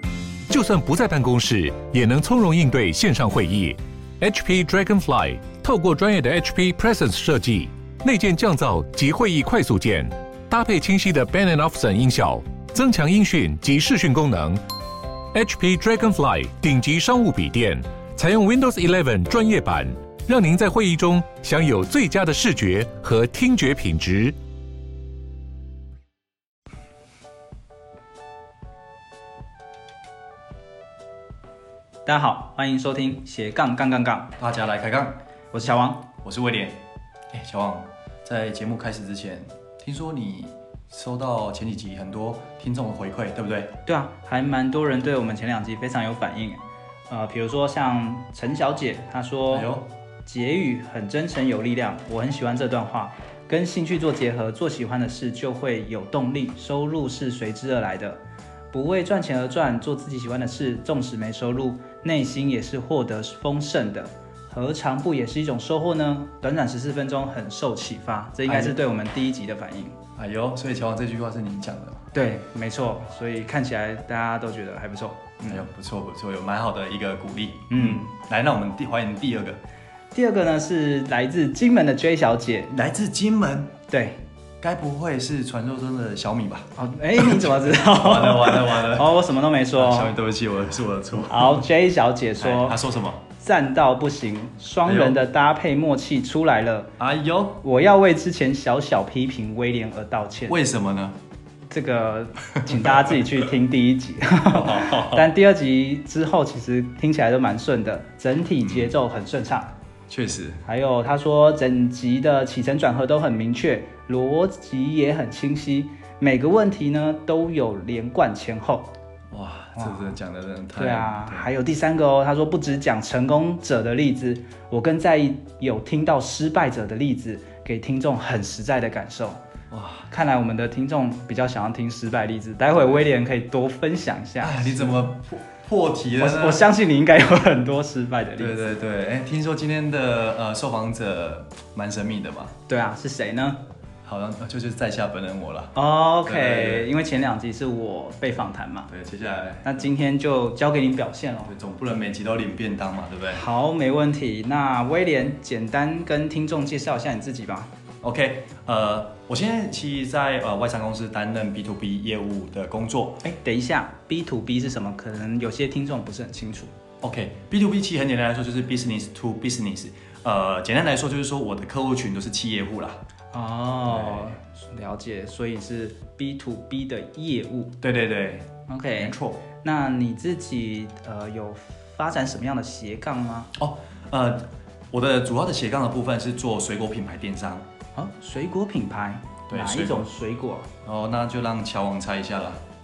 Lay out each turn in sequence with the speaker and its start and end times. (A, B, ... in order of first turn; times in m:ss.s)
0:00.5-0:14.6 A
0:15.3-0:24.4 A
0:32.1-0:34.3 B
0:34.4-0:35.2 C
0:35.5-0:36.1 B
0:36.2-0:43.7 C
0:43.9-0:49.7 B
0:49.5-0:49.9 C
0:50.2-0:58.2 B
0:58.7-1:10.0 B
1:08.5-1:08.8 C
1:10.2-1:12.1 C
1:12.1-1:15.7 B
1:15.5-1:19.6 C
1:17.7-1:18.1 B
1:20.1-1:22.7 B
1:22.7-1:23.8 C
1:23.9-1:24.2 B
1:24.6-1:31.7 C
1:26.8-1:30.2 B
1:31.3-1:32.8 B
1:32.4-1:33.2 C
1:33.4-1:36.9 B
1:34.8-1:35.2 C
1:37.0-1:37.6 C
1:37.6-1:40.6 B
1:40.5-1:41.2 C
1:41.7-1:49.7 B
1:42.7-1:43.2 C
1:44.5-1:45.3 C
1:48.6-1:48.9 C
1:50.1-1:50.6 C
1:50.6-1:58.9 B
1:59.3-2:01.5 C
1:59.8-2:00.2 B
2:00.8-2:09.4 B
2:09.7-2:10.1 C
2:10.1-2:15.1 B
2:12.8-2:13.0 C
2:14.4-2:16.6 C
2:16.2-2:18.8 B
2:18.4-2:22.5 C
2:22.7-2:23.6 B
2:24.0-2:26.9 C
2:25.8-2:28.9 B
2:28.9-2:29.9 C
2:29.6-2:31.5 B
2:31.5-2:33.4 C
2:33.3-2:37.7 B
2:38.0-2:43.4 C
2:43.4-2:46.7 B
2:47.0-2:53.0 C
2:53.3-2:57.8 B
2:53.9-2:54.4 C
2:57.8-2:59.4 C
2:58.7-3:03.5 B
3:03.6-3:07.7 C
3:08.0-3:10.7 B
3:09.5-3:10.1 C
3:10.8-3:12.6 C